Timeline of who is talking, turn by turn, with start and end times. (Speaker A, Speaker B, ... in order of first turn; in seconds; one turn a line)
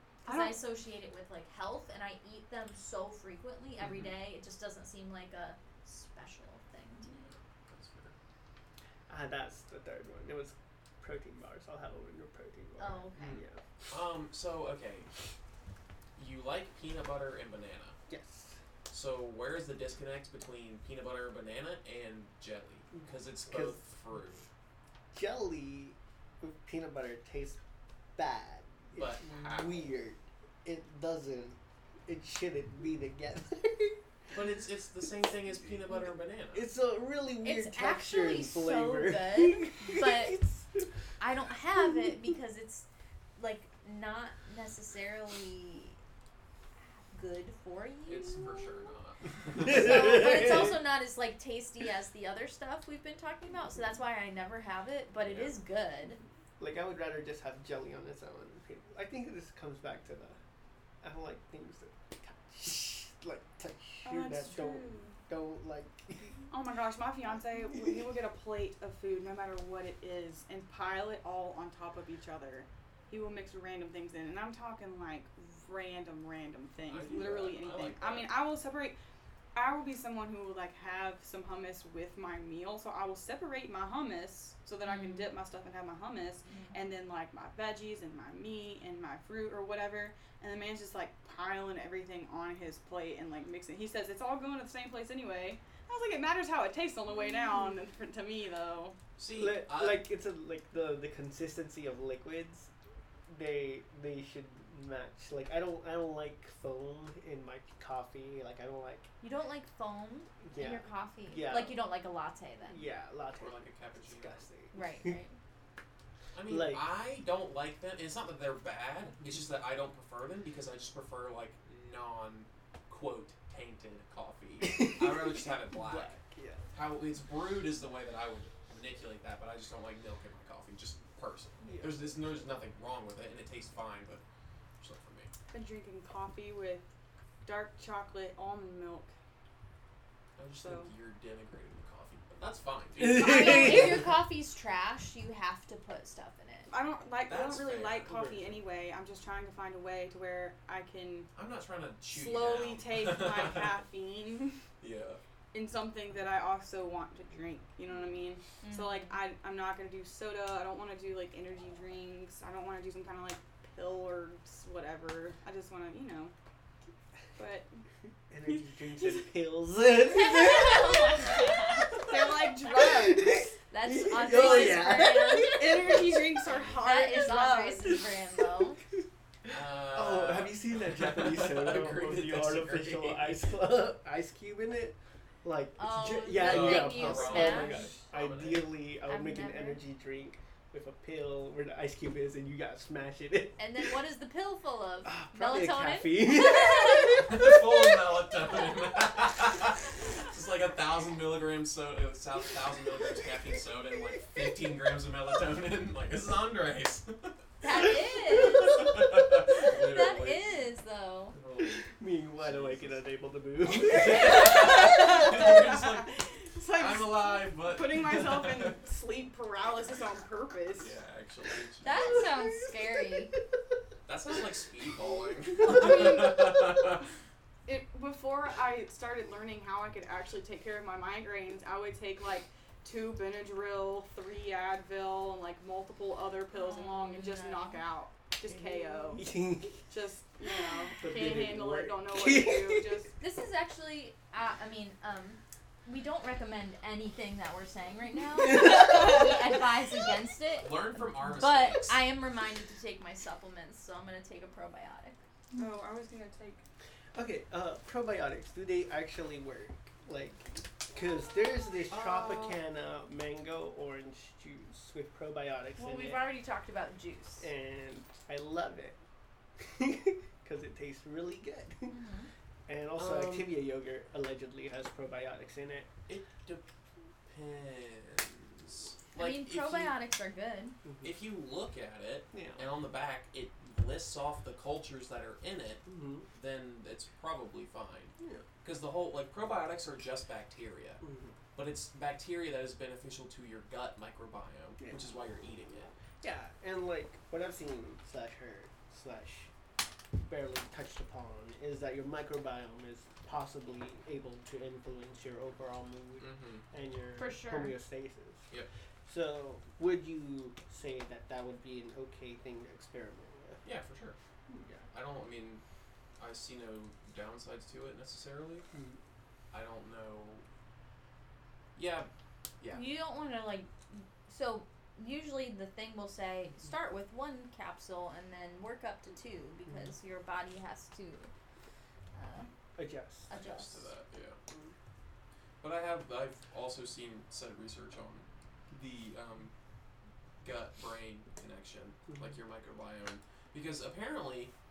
Speaker A: 0.2-0.6
Speaker B: 0.2-7.2
Speaker C: 3.8-4.1
Speaker C: 7.1-8.2
Speaker D: 9.1-13.6
Speaker B: 12.8-13.4
Speaker C: 13.2-15.1
Speaker C: 16.2-18.0
Speaker D: 18.1-18.6
Speaker C: 18.9-24.5
Speaker D: 23.0-23.8
Speaker D: 25.1-27.6
Speaker D: 28.2-34.0
Speaker C: 28.9-29.9
Speaker C: 34.3-36.7
Speaker D: 35.9-40.7
Speaker B: 37.4-40.5
Speaker B: 41.2-46.0
Speaker B: 47.1-48.6
Speaker C: 48.1-50.6
Speaker B: 49.6-56.2
Speaker C: 55.2-55.6
Speaker D: 56.6-60.4
Speaker D: 61.0-66.4
Speaker A: 64.0-65.2
Speaker A: 66.5-79.0
Speaker C: 76.9-78.3
Speaker A: 79.5-99.0
Speaker B: 84.8-85.3
Speaker B: 86.5-86.8
Speaker C: 99.2-100.0
Speaker D: 99.3-102.7
Speaker D: 103.3-109.1
Speaker B: 109.2-112.9
Speaker D: 110.4-111.8
Speaker D: 112.7-115.2
Speaker C: 113.4-114.4
Speaker B: 114.7-115.4
Speaker C: 116.3-126.2
Speaker D: 116.5-116.9
Speaker D: 124.6-126.7
Speaker C: 126.7-134.2
Speaker D: 131.6-132.1
Speaker C: 134.8-135.3
Speaker A: 135.5-136.8
Speaker A: 137.4-139.1
Speaker C: 140.4-143.9
Speaker A: 140.6-140.9
Speaker D: 143.0-144.0
Speaker B: 143.0-146.7
Speaker A: 146.7-151.3
Speaker C: 147.3-148.4
Speaker D: 148.1-148.5
Speaker C: 151.3-153.7
Speaker A: 152.1-154.6
Speaker C: 154.8-155.2
Speaker A: 155.5-166.3
Speaker B: 158.6-159.2
Speaker A: 167.4-167.7
Speaker D: 168.3-172.1
Speaker A: 168.5-169.2
Speaker B: 170.1-172.0
Speaker A: 172.0-173.5
Speaker D: 172.6-176.5
Speaker B: 173.7-175.8
Speaker A: 175.5-178.0
Speaker C: 176.5-176.8
Speaker B: 176.8-178.8
Speaker C: 179.5-183.5
Speaker D: 179.9-193.6
Speaker B: 185.8-187.9
Speaker C: 186.3-188.7
Speaker B: 189.1-189.8
Speaker B: 193.6-197.2
Speaker D: 195.1-198.0
Speaker C: 197.1-210.6
Speaker B: 207.6-211.4
Speaker C: 211.3-211.8
Speaker D: 211.6-215.0
Speaker C: 212.4-213.0
Speaker C: 213.6-216.1
Speaker A: 214.1-220.9
Speaker C: 216.8-218.8
Speaker C: 220.8-222.2
Speaker B: 221.8-223.3
Speaker C: 224.1-227.1
Speaker A: 225.7-226.1
Speaker A: 227.7-239.3
Speaker B: 236.5-237.8
Speaker D: 239.1-239.8
Speaker A: 239.9-243.1
Speaker D: 241.0-243.0
Speaker B: 243.2-255.2
Speaker D: 248.5-249.2
Speaker C: 250.6-252.0
Speaker A: 255.6-256.6
Speaker D: 257.1-266.3
Speaker C: 261.9-262.6
Speaker B: 265.8-267.5
Speaker D: 267.4-269.0
Speaker D: 269.6-272.0
Speaker B: 271.9-272.3
Speaker D: 272.7-275.9
Speaker C: 273.0-273.6
Speaker C: 276.1-276.6
Speaker C: 277.3-280.0
Speaker B: 279.2-280.8
Speaker D: 280.9-281.1
Speaker C: 281.0-291.0
Speaker D: 282.3-282.7
Speaker D: 285.9-286.3
Speaker D: 288.2-288.4
Speaker D: 291.0-291.3
Speaker C: 291.5-295.9
Speaker D: 294.8-295.3
Speaker D: 296.2-299.5
Speaker D: 300.1-308.5
Speaker C: 306.2-306.6
Speaker B: 307.2-307.8
Speaker D: 309.1-313.6
Speaker C: 313.6-314.2
Speaker D: 314.5-314.9
Speaker C: 314.9-315.6
Speaker C: 316.2-318.6
Speaker D: 318.7-319.0
Speaker C: 319.5-320.4
Speaker C: 321.8-322.1
Speaker B: 322.7-331.3
Speaker B: 332.1-332.5
Speaker D: 332.8-333.3
Speaker B: 333.3-333.9
Speaker C: 333.3-334.4
Speaker D: 334.5-334.7
Speaker C: 335.6-339.5
Speaker C: 340.4-344.5